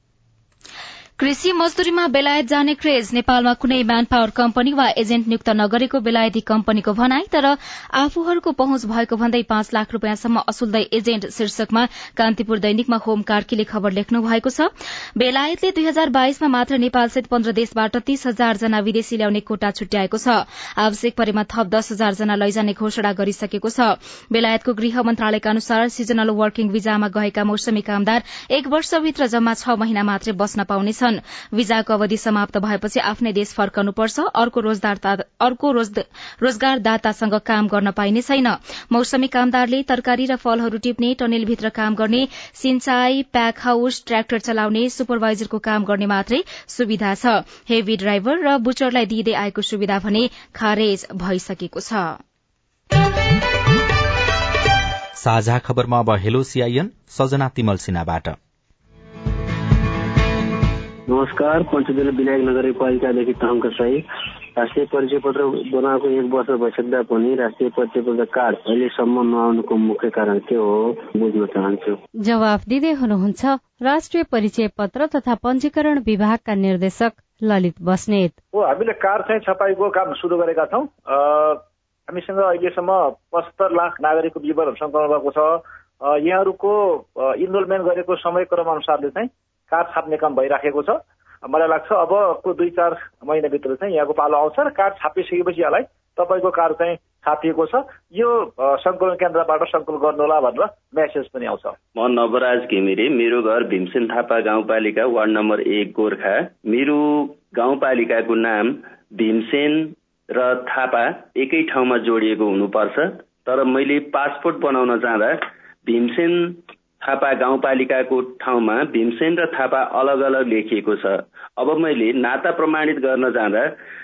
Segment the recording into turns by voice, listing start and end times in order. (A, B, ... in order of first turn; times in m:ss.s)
0:01.2-0:52.2 A
0:55.2-0:58.4 B
1:01.1-1:04.0 C
1:04.6-1:12.0 C
1:12.2-1:18.4 D
1:18.6-1:21.6 E
1:22.1-1:24.1 E
1:24.7-1:25.4 E
1:26.1-1:30.0 E
1:30.6-1:30.9 E
1:31.5-1:33.6 E
1:34.2-1:41.7 E
1:42.0-2:03.7 F